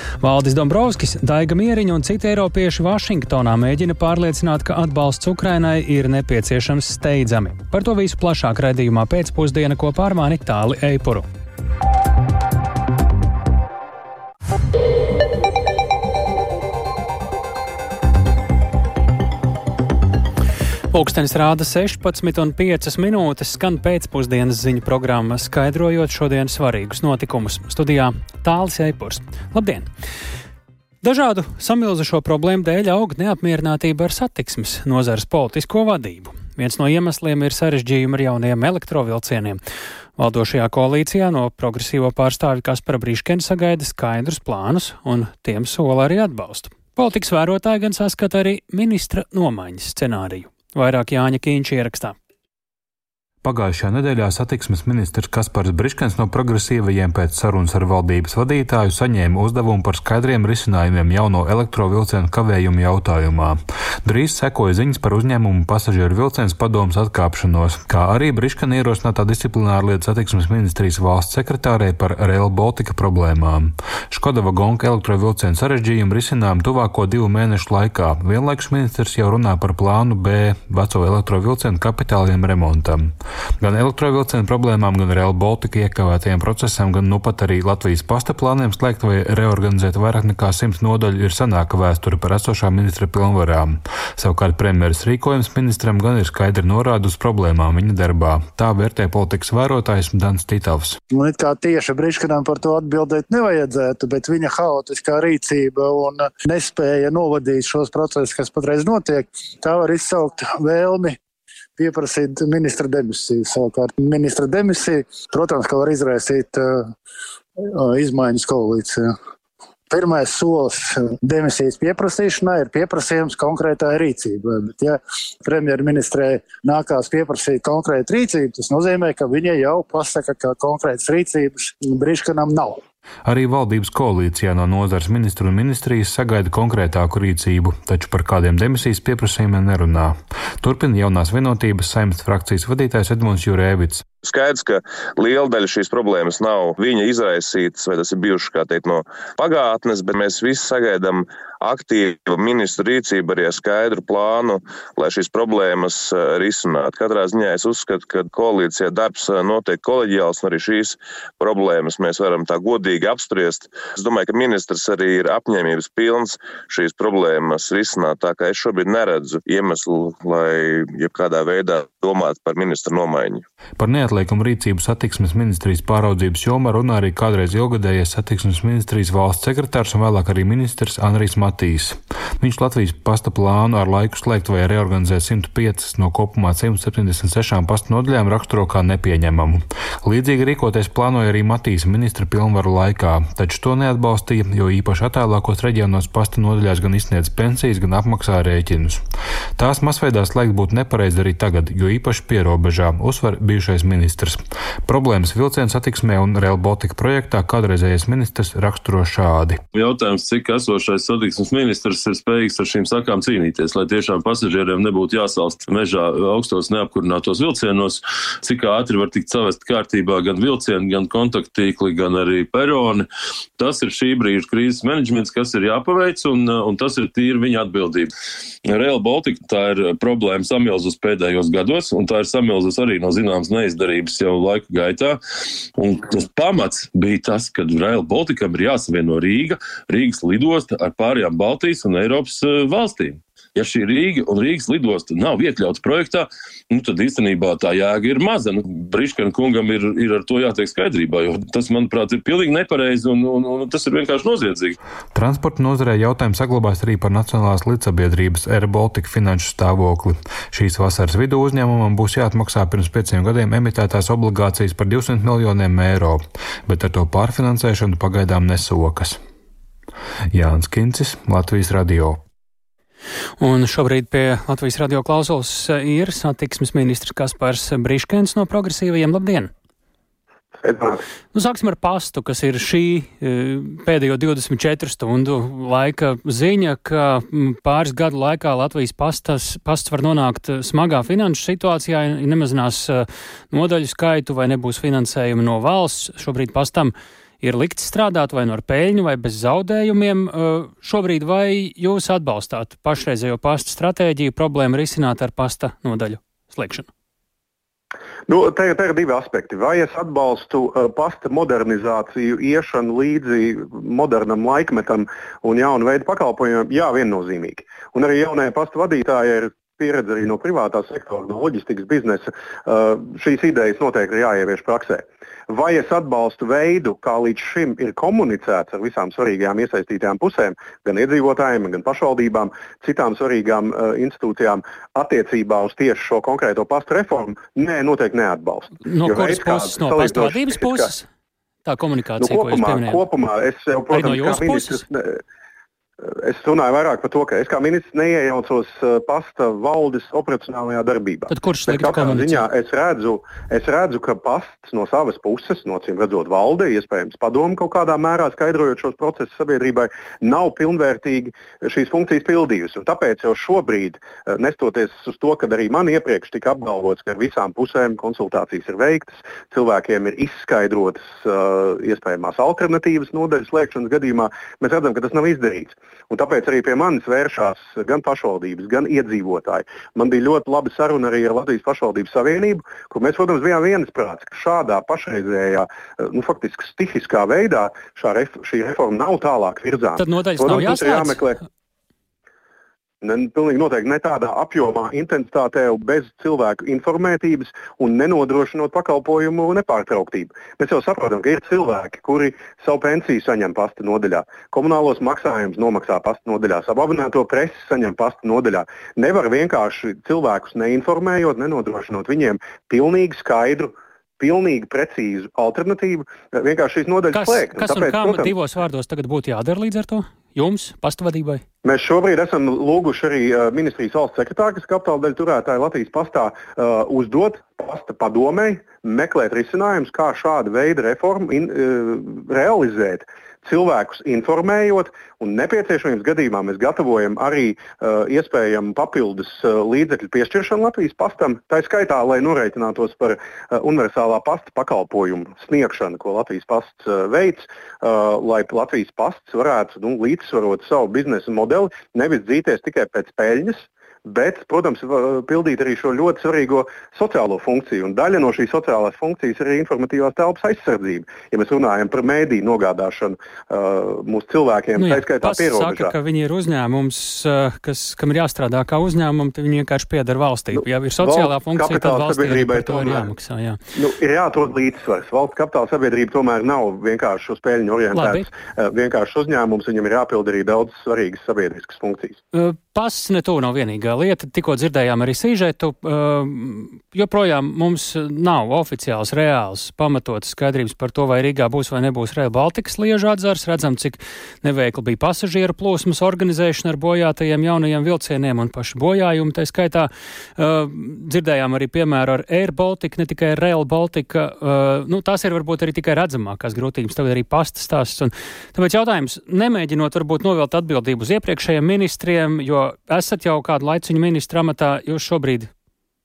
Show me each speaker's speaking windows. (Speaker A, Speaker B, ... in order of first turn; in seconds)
Speaker A: 0.2-11.3, 20.9-29.9, 31.0-39.6, 40.2-52.2, 273.4-279.5, 281.3-306.9, 338.9-341.1, 341.6-343.0, 343.9-344.8, 351.3-352.4, 390.0-391.2, 417.1-421.4, 464.8-473.6, 477.9-478.2, 482.3-515.5
Speaker B: 53.4-101.0, 133.3-144.1, 173.8-199.0, 199.6-209.6, 255.1-269.2, 270.3-272.2
Speaker C: 101.1-111.2, 111.8-116.9, 117.6-119.1, 119.9-132.8
Speaker D: 144.2-173.4
Speaker E: 209.7-223.1, 223.6-228.1, 228.7-235.2, 235.8-254.8
Speaker F: 280.6-281.0, 308.3-340.9, 342.2-345.2, 346.0-391.4, 393.0-418.3, 421.6-465.9, 470.5-473.1, 473.8-482.2